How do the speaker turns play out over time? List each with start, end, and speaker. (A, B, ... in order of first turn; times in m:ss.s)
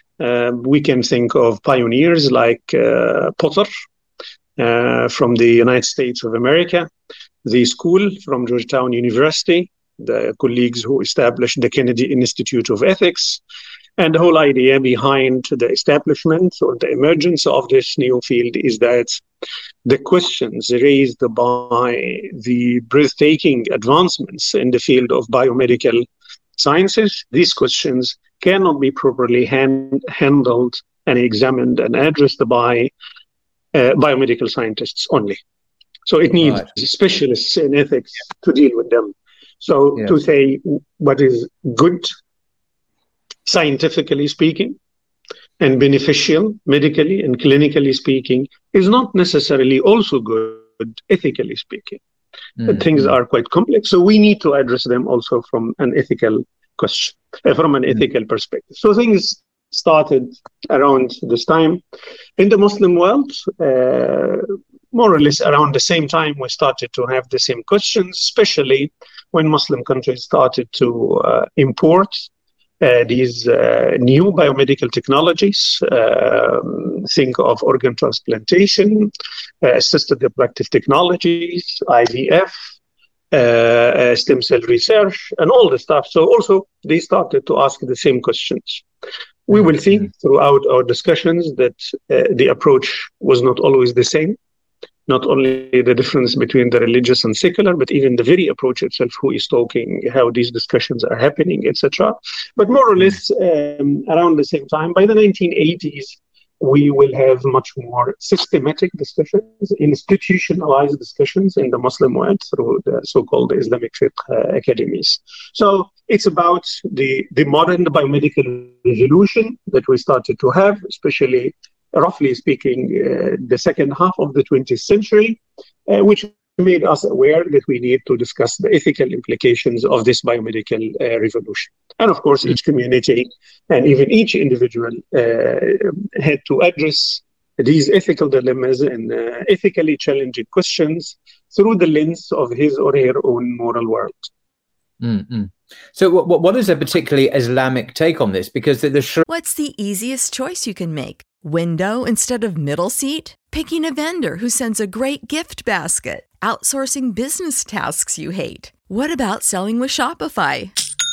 0:00.2-0:03.7 A
0:04.6-0:06.9 A
0:07.4-0:13.4 A
0:14.0-0:19.2 A
0:19.8-0:26.1 A
0:26.6-0:32.9 A
0:33.7-0:35.4 A
0:36.1-0:42.1 A
0:36.4-0:36.7 B
0:43.5-0:44.8 A
0:45.6-0:52.0 A
0:52.6-0:53.1 B
0:52.6-1:01.8 A
1:02.4-1:12.3 A
1:12.8-1:22.5 A
1:23.3-1:28.8 A
1:29.5-1:34.4 A
1:35.1-2:24.3 A
2:25.0-2:29.2 B
2:29.3-2:40.8 C